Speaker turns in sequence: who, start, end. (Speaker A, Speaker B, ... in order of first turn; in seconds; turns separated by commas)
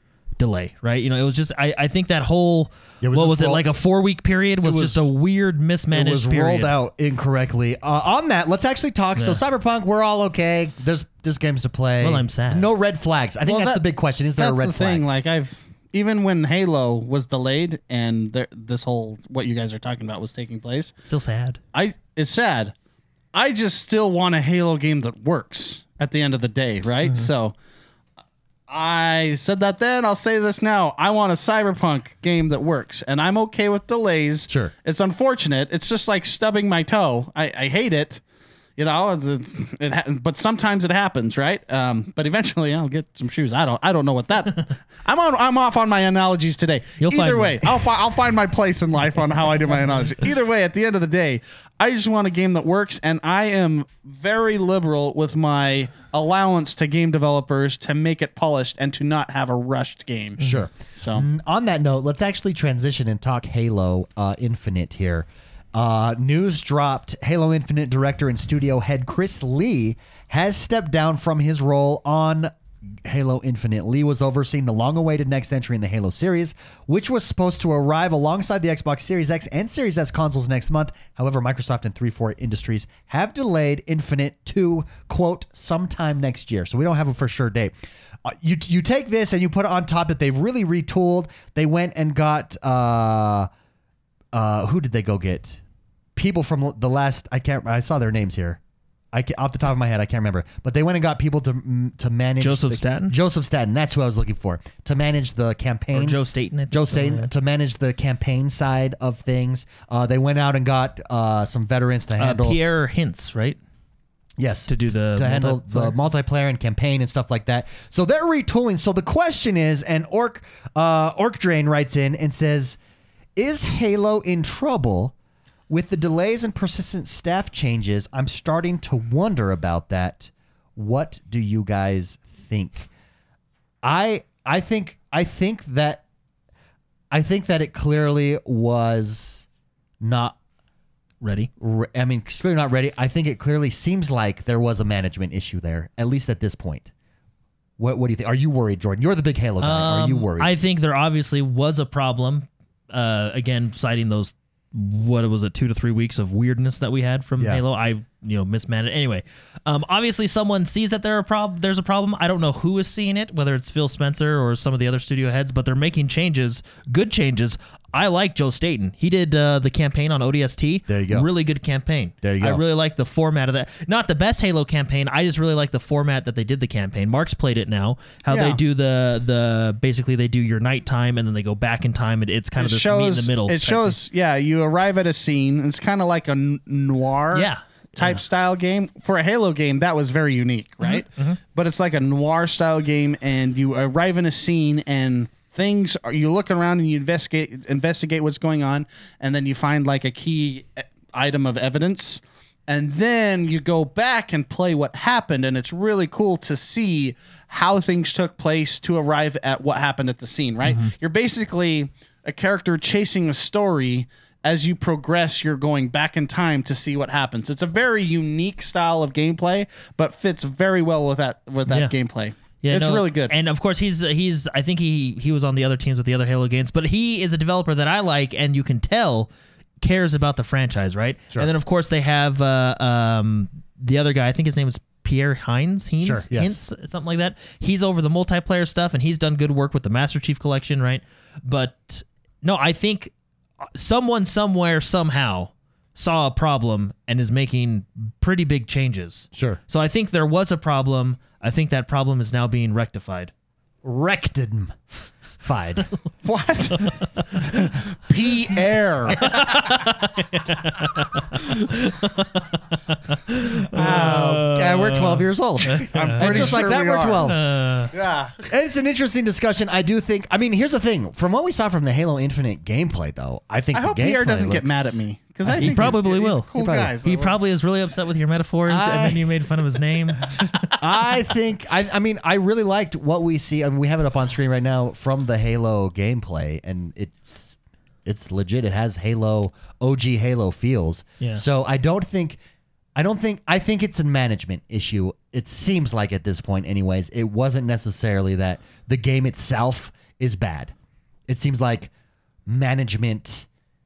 Speaker A: 0.4-6.7, Speaker B: 3.0-3.6, Speaker B: 4.6-5.1, Speaker B: 5.9-15.1, Speaker A: 9.2-9.4, Speaker A: 12.0-12.7, Speaker C: 13.5-13.8, Speaker C: 14.4-21.0, Speaker A: 21.0-21.6, Speaker C: 21.7-22.7, Speaker C: 23.3-27.5, Speaker A: 27.0-27.3, Speaker C: 28.7-38.2, Speaker C: 38.8-60.4, Speaker A: 47.0-47.7, Speaker B: 60.4-72.5, Speaker C: 61.0-61.3, Speaker B: 73.0-87.7, Speaker B: 88.2-93.5, Speaker B: 94.3-95.6, Speaker B: 96.2-98.6, Speaker B: 99.1-106.2, Speaker A: 102.4-103.2, Speaker A: 105.9-107.3, Speaker B: 106.7-112.6, Speaker A: 112.2-113.6, Speaker B: 114.4-122.8, Speaker A: 114.7-116.0, Speaker B: 123.4-125.1, Speaker B: 125.7-132.9, Speaker B: 133.8-136.0, Speaker B: 137.1-139.5, Speaker B: 140.0-140.4, Speaker A: 141.2-141.5, Speaker B: 141.6-146.9, Speaker B: 147.8-150.5, Speaker A: 149.6-184.0, Speaker B: 170.9-171.3, Speaker B: 172.2-172.6, Speaker C: 178.3-178.6, Speaker C: 182.6-223.3, Speaker A: 187.3-188.2, Speaker A: 190.8-191.4, Speaker A: 210.7-210.9, Speaker A: 221.7-221.9, Speaker A: 222.6-229.3, Speaker A: 229.8-243.1, Speaker B: 236.0-236.6, Speaker A: 243.8-253.3, Speaker B: 249.3-249.6, Speaker B: 253.8-254.8, Speaker B: 255.4-255.9, Speaker C: 256.2-259.7, Speaker A: 256.8-257.5, Speaker A: 259.2-266.6, Speaker B: 263.7-267.5, Speaker C: 263.7-264.4, Speaker C: 265.9-267.3, Speaker A: 267.2-267.9, Speaker C: 267.9-268.4, Speaker B: 268.4-276.0, Speaker C: 273.7-277.4, Speaker A: 275.6-276.5, Speaker B: 276.6-276.9, Speaker A: 277.0-280.8, Speaker B: 278.7-279.4, Speaker B: 280.8-287.5, Speaker B: 288.1-292.4, Speaker B: 293.0-300.7, Speaker B: 301.3-301.9, Speaker B: 302.5-303.5